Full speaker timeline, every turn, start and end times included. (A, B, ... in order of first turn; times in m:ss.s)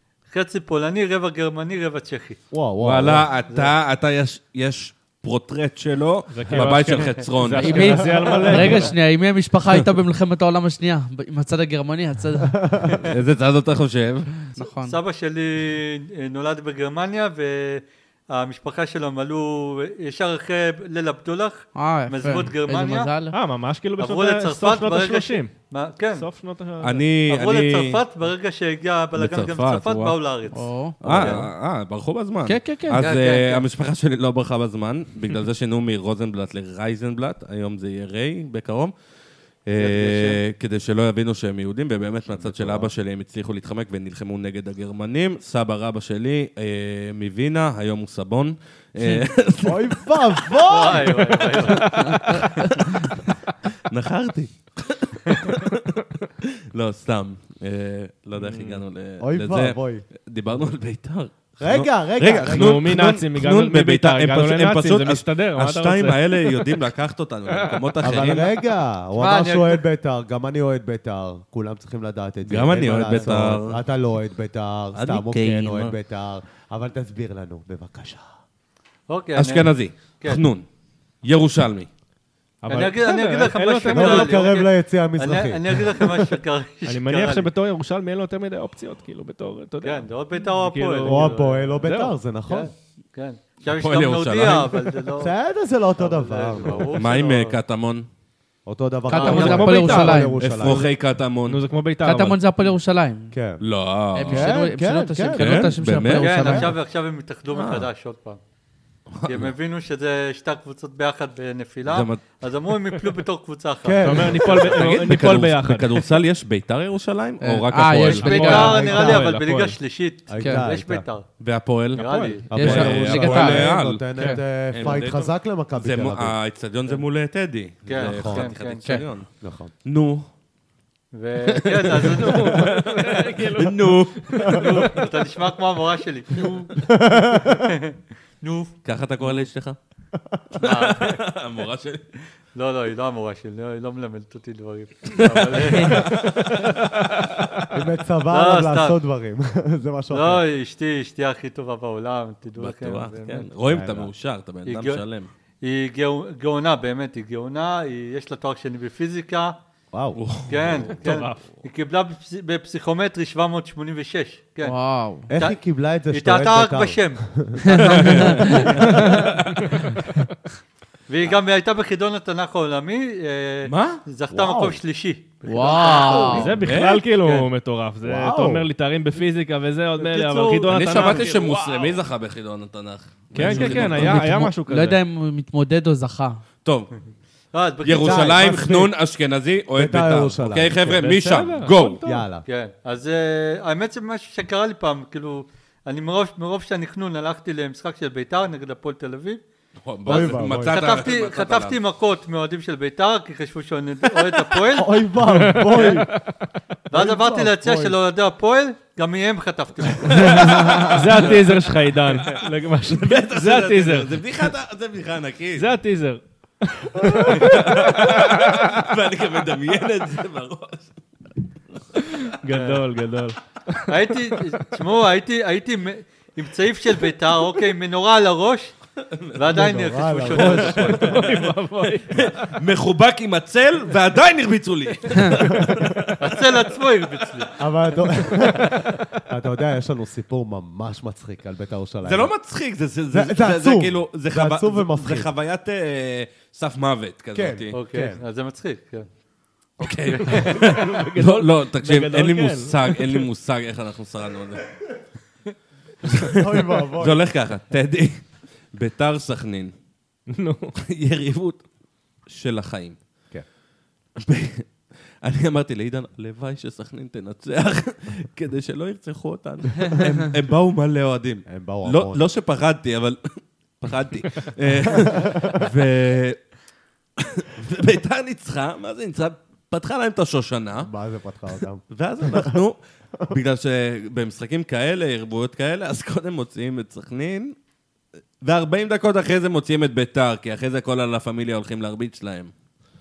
0:00.3-0:02.4 A
0:02.5-0:03.3 B
0:02.8-0:08.0 C
0:06.3-0:08.9 D
0:07.5-0:12.6 E
0:08.0-0:08.6 B
0:12.5-0:13.0 B
0:13.1-0:14.3 C
0:14.6-0:15.0 E
0:14.6-0:23.1 A
0:21.8-0:23.4 E
0:23.3-0:25.5 D
0:24.0-0:26.3 A
0:26.2-0:27.1 D
0:26.8-0:28.0 C
0:27.3-0:31.5 A
0:29.2-0:30.2 C
0:30.5-0:31.0 E
0:31.0-0:38.9 C
0:32.5-0:33.0 E
0:33.0-0:33.6 A
0:39.7-0:50.6 C
0:39.8-0:40.4 A
0:42.3-0:42.9 B
0:49.6-0:51.8 B
0:50.7-0:52.4 A
0:51.7-0:53.2 C
0:53.9-1:08.5 C
0:58.4-0:58.8 D
0:59.2-1:00.0 B
1:01.6-1:03.0 B
1:02.5-1:06.8 D
1:07.5-1:07.9 D
1:08.0-1:18.2 B
1:09.2-1:09.9 A
1:12.4-1:13.8 C
1:14.9-1:16.0 C
1:19.1-1:20.4 A
1:19.4-1:20.7 C
1:21.2-1:21.9 C
1:22.6-1:24.4 D
1:22.7-1:27.5 A
1:23.9-1:26.3 B
1:26.9-1:32.2 D
1:29.8-1:31.8 A
1:31.1-1:32.7 B
1:32.5-1:35.4 A
1:33.7-1:34.8 C
1:35.2-1:37.0 B
1:36.0-1:37.6 A
1:36.9-1:38.1 C
1:38.7-1:40.8 B
1:39.1-1:40.4 E
1:39.1-1:39.7 A
1:39.2-1:40.9 D
1:40.4-1:41.6 C
1:41.4-1:42.4 D
1:42.0-1:43.3 E
1:43.3-1:43.6 B
1:43.6-1:44.6 C
1:44.1-1:46.7 E
1:44.3-1:45.7 B
1:45.3-1:46.7 C
1:46.1-1:48.4 A
1:47.5-1:47.9 C
1:49.1-1:49.5 C
1:49.2-1:54.9 A
1:51.9-1:52.2 C
1:53.8-1:54.8 B
1:54.0-1:56.0 D
1:54.7-1:58.5 C
1:57.4-1:58.8 E
1:58.1-2:01.3 A
1:58.1-1:59.8 D
1:58.5-1:59.3 B
2:00.3-2:01.0 B
2:00.4-2:00.6 E
2:01.4-2:09.3 C
2:01.9-2:03.5 D
2:02.0-2:02.5 A
2:02.5-2:06.4 B
2:02.5-2:04.4 E
2:07.9-2:08.9 A
2:07.9-2:08.5 B
2:09.4-2:09.7 B
2:09.8-2:10.3 C
2:11.1-2:12.8 A
2:11.6-2:14.3 C
2:12.2-2:14.9 D
2:14.4-2:16.8 A
2:16.8-2:17.7 B
2:17.5-2:19.4 A
2:18.8-2:19.8 C
2:20.6-2:22.1 C
2:20.6-2:21.2 A
2:22.6-2:26.3 A
2:25.2-2:27.6 C
2:27.7-2:30.4 B
2:28.3-2:29.0 A
2:30.1-2:33.5 A
2:32.6-2:35.3 C
2:33.6-2:34.1 B
2:34.7-2:35.0 A
2:35.6-2:39.6 A
2:39.9-2:40.2 B
2:40.2-2:41.0 C
2:40.5-2:44.8 A
2:40.9-2:41.4 D
2:44.6-2:45.3 E
2:45.3-2:49.0 B
2:45.3-2:45.6 A
2:46.1-2:48.7 A
2:47.7-2:48.7 E
2:47.8-2:49.8 C
2:49.1-2:50.0 D
2:51.1-2:56.6 A
2:53.6-2:54.0 C
2:54.3-2:54.8 B
2:55.4-2:56.5 E
2:55.8-2:56.7 B
2:56.3-3:01.8 D
2:56.6-2:57.1 C
2:57.2-2:57.5 A
2:58.0-2:58.7 B
3:00.0-3:01.7 A
3:00.7-3:04.2 C
3:03.3-3:05.0 D
3:03.4-3:06.4 E
3:06.6-3:06.9 C
3:07.5-3:08.6 A
3:07.8-3:12.0 C
3:08.0-3:08.9 B
3:09.8-3:11.2 B
3:10.9-3:12.3 D
3:12.0-3:12.4 B
3:12.5-3:19.4 A
3:19.8-3:21.8 C
3:20.1-3:25.1 A
3:20.1-3:20.8 B
3:24.8-3:26.2 B
3:25.3-3:26.5 D
3:26.9-3:28.0 B
3:26.9-3:30.6 A
3:30.1-3:31.3 C
3:30.4-3:34.2 D
3:32.2-3:35.7 C
3:35.6-3:38.4 D
3:37.3-3:40.9 C
3:42.3-3:44.4 D
3:42.5-3:42.9 A
3:43.9-3:48.8 A
3:49.3-3:51.3 A
3:49.5-3:51.2 B
3:50.8-3:52.5 D
3:52.1-3:56.6 C
3:55.4-3:56.0 B
3:56.2-3:58.7 A
3:57.6-4:02.3 B
4:02.0-4:07.8 C
4:03.1-4:05.3 B
4:07.3-4:08.2 B
4:07.7-4:09.1 A
4:09.8-4:10.7 A
4:09.8-4:14.7 C
4:10.2-4:13.2 D
4:16.0-4:19.7 C
4:16.1-4:17.2 B
4:20.3-4:20.8 D
4:20.8-4:21.6 C
4:22.3-4:23.0 C
4:24.2-4:24.7 C
4:25.2-4:36.4 C
4:31.5-4:32.2 B
4:35.0-4:35.5 B
4:37.2-4:40.9 C
4:40.8-4:42.6 B
4:41.9-4:42.8 C
4:43.3-4:47.6 C
4:48.4-4:52.5 C